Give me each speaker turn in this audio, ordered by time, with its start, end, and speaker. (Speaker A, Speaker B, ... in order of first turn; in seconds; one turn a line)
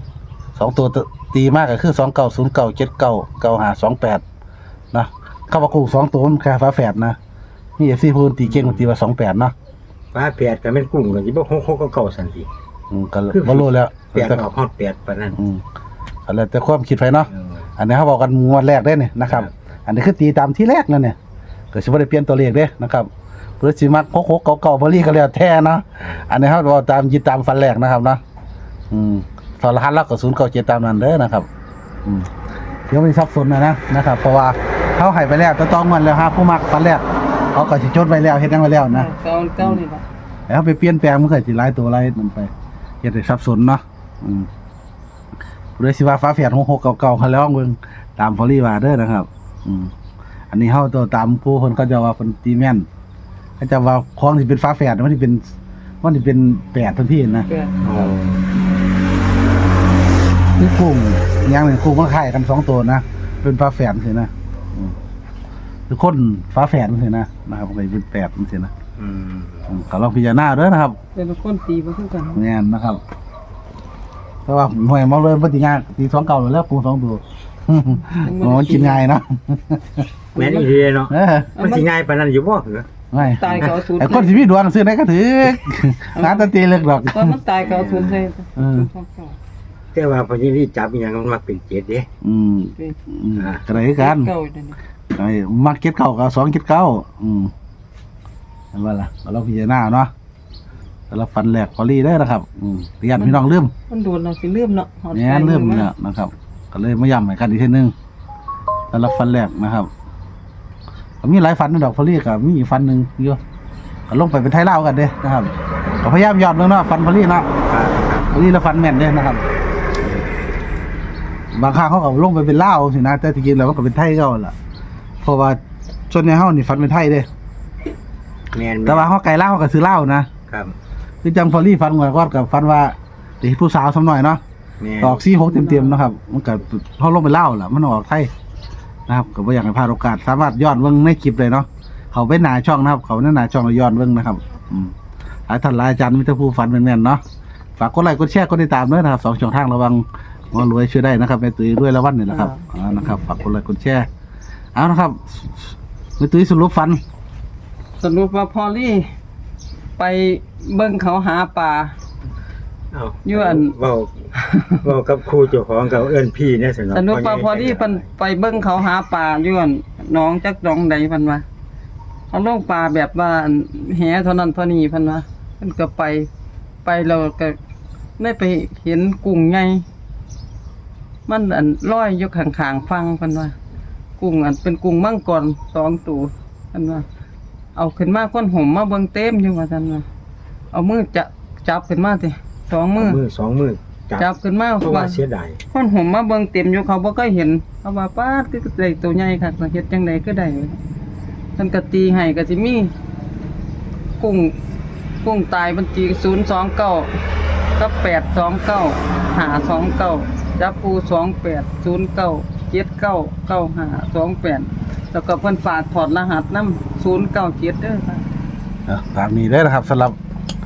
Speaker A: 0.6-4.2
Speaker A: 4.9-7.2
Speaker A: 7.8-9.5
Speaker B: 8.4-8.9
Speaker B: 10.1-12.5
Speaker A: 12.9-14.5
Speaker B: 13.3-15.4
Speaker A: 15.4-15.6
Speaker A: 16.3-21.2
Speaker B: 17.3-17.7
Speaker B: 19.3-19.5
Speaker A: 21.7-23.1
Speaker A: 23.6-28.2
Speaker B: 26.0-26.3
Speaker A: 28.9-31.5
Speaker A: 32.0-32.3
Speaker A: 32.9-39.8
Speaker C: 38.9-40.0
Speaker A: 40.5-42.5
Speaker A: 43.0-44.5
Speaker A: 45.8-49.9
Speaker A: 50.5-52.9
Speaker A: 53.6-58.3
Speaker C: 57.5-57.8
Speaker B: 57.8-58.4
Speaker A: 60.6-65.0
Speaker A: 65.9-68.7
Speaker B: 69.0-69.7
Speaker A: 69.7-71.0
Speaker C: 71.2-72.4
Speaker A: 72.3-73.0
Speaker A: 74.5-80.1
Speaker C: 78.2-79.0
Speaker C: 80.4-80.7
Speaker B: 80.4-82.9
Speaker A: 81.1-81.5
Speaker C: 81.5-81.9
Speaker A: 83.1-87.4
Speaker C: 83.3-84.4
Speaker C: 86.2-89.3
Speaker B: 87.6-88.2
Speaker A: 88.6-88.9
Speaker B: 89.9-92.1
Speaker A: 92.2-94.3
Speaker B: 93.4-93.7
Speaker C: 93.8-94.8
Speaker A: 95.1-97.5
Speaker A: 98.7-100.1
Speaker A: 101.1-103.7
Speaker C: 103.2-105.9
Speaker A: 105.1-107.9
Speaker A: 108.9-109.9
Speaker A: 111.2-113.4
Speaker A: 114.1-117.5
Speaker B: 117.7-118.3
Speaker A: 118.3-119.4
Speaker A: 121.5-124.5
Speaker A: 125.2-127.3
Speaker B: 128.5-129.1
Speaker A: 128.9-130.3
Speaker B: 130.5-130.8
Speaker A: 131.2-134.4
Speaker B: 134.8-135.2
Speaker A: 135.0-138.3
Speaker A: 139.1-144.9
Speaker A: 145.5-147.2
Speaker A: 147.8-154.1
Speaker C: 152.3-152.6
Speaker A: 154.8-157.0
Speaker C: 158.0-159.1
Speaker C: 160.0-161.9
Speaker B: 162.9-168.1
Speaker C: 163.2-163.8
Speaker C: 164.4-164.8
Speaker C: 166.9-171.4
Speaker C: 172.3-176.3
Speaker C: 176.8-177.6
Speaker C: 178.2-179.9
Speaker C: 181.3-183.6
Speaker C: 184.2-187.1
Speaker C: 187.8-190.1
Speaker C: 190.7-193.2
Speaker B: 192.9-195.6
Speaker C: 194.2-200.8
Speaker C: 201.6-202.9
Speaker C: 204.2-204.6
Speaker C: 205.2-207.2
Speaker C: 207.8-218.2
Speaker A: 218.9-220.2